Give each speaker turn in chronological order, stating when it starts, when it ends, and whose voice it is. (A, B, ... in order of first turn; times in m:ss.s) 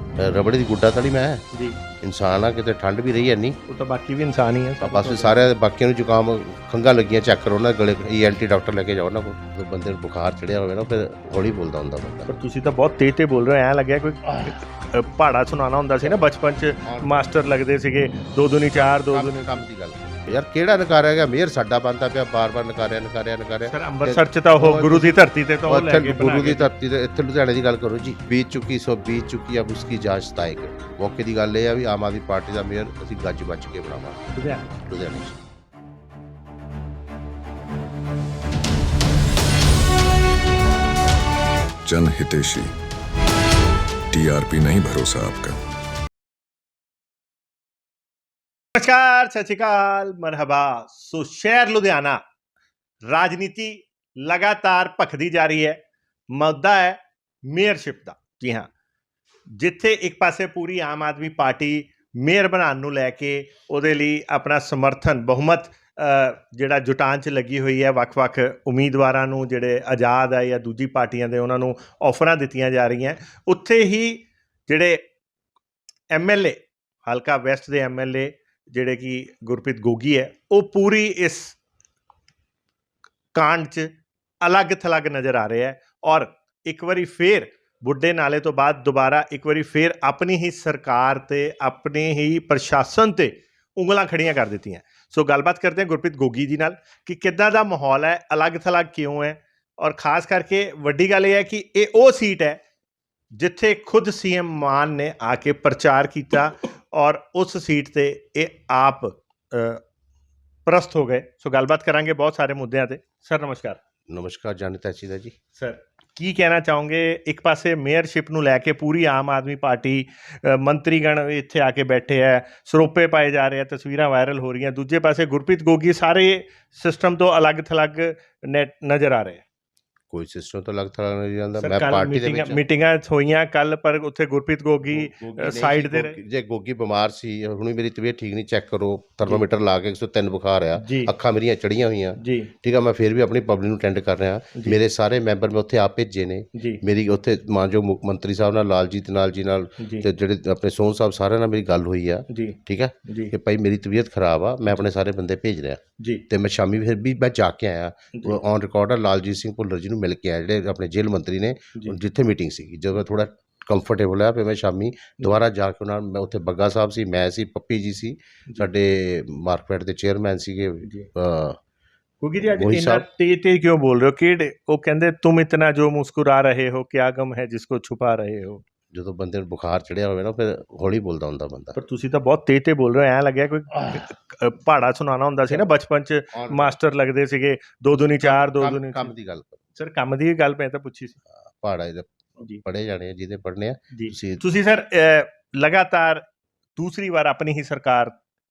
0:00.2-0:01.4 A
0:01.5-0:01.8 B
0:02.0-0:03.6 A
0:03.7-0:05.4 B
0:04.8-0:12.3 A
0:12.3-0:19.5 B
0:16.8-0:17.2 A
0:19.1-0:25.2 A
0:23.7-0:26.7 B
0:25.7-0:35.4 A
0:34.3-0:34.7 B
0:41.8-0:42.7 C
0:44.1-0:45.6 C
0:48.7-0:52.2 B
0:53.1-0:55.8 B
0:56.3-0:58.7 B
0:59.5-1:15.0 B
1:16.1-1:21.6 B
1:23.3-1:23.9 B
1:24.4-1:42.6 B
1:43.3-1:49.8 B
1:50.6-1:53.8 B
1:54.1-1:55.3 A
1:55.6-2:09.4 B
2:10.1-2:12.6 A
2:11.6-2:16.2 B
2:14.9-2:51.6 A
2:20.8-2:21.1 B
2:22.2-2:22.5 B
2:26.5-2:26.8 B
2:29.8-2:30.1 B
2:32.3-2:33.3 B
2:36.0-2:36.2 B
2:38.1-2:38.4 B
2:50.8-2:51.1 B
2:52.2-2:58.6 B
2:52.4-2:53.0 A
2:58.9-3:01.8 A
3:01.8-3:09.1 B
3:06.3-3:06.8 A
3:08.2-3:09.6 A
3:09.8-3:11.2 B
3:11.3-3:12.1 A
3:12.6-3:14.4 A
3:13.9-3:16.2 B
3:16.8-3:18.1 B